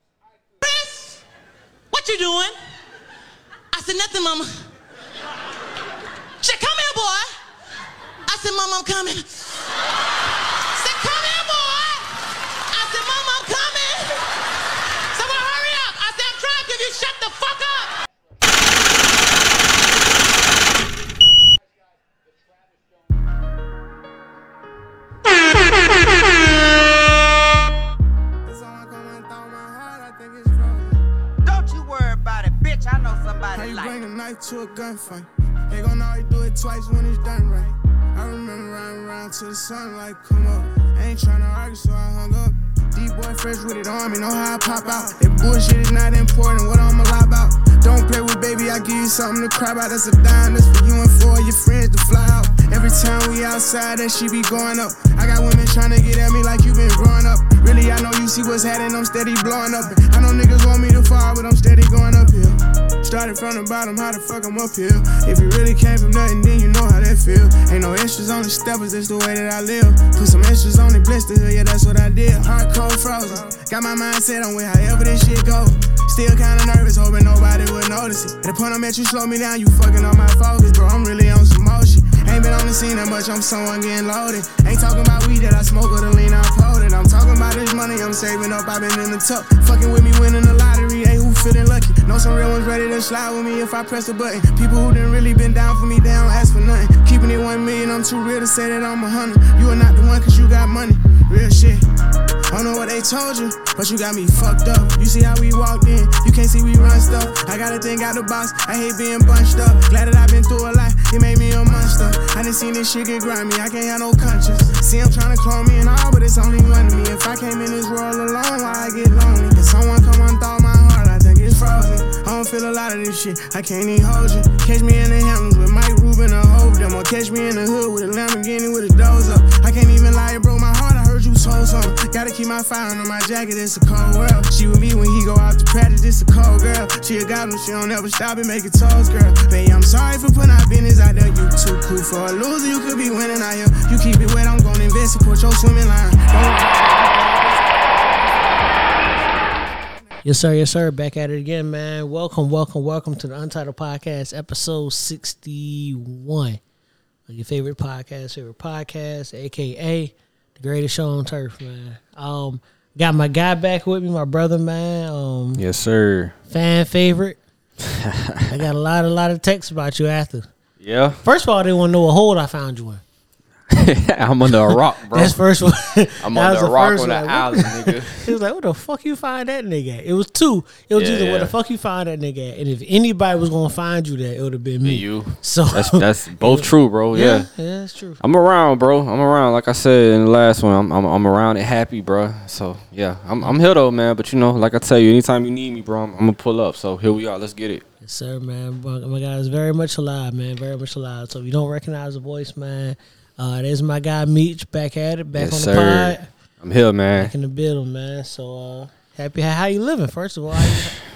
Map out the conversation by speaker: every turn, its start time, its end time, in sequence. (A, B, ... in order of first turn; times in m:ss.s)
0:00.6-0:01.2 A
0:01.9-0:02.5 A
0:03.7-0:04.6 A
0:06.4-0:07.3 A
0:08.3-0:09.7 A
0:10.8-0:12.2 A
0:12.7-0:14.5 A
0:15.1-0:18.0 A
0:28.4-0:31.0 B
0:31.4-0:34.0 C
0:33.5-1:41.8 B
1:42.5-2:29.9 B
2:30.2-2:36.6 D
2:37.3-2:45.6 D
2:45.6-2:46.3 E
2:46.5-2:47.4 D
2:47.8-2:48.5 E
2:48.5-2:50.5 D
2:50.8-2:51.2 E
2:51.2-2:53.0 D
2:53.7-2:55.4 E
2:54.6-3:08.2 D
2:56.2-2:58.4 E
3:00.9-3:01.5 E
3:04.8-3:07.5 E
3:08.2-3:17.8 E
3:18.0-3:26.3 D
3:25.3-3:27.3 E
3:27.1-3:31.0 D
3:30.6-3:30.9 E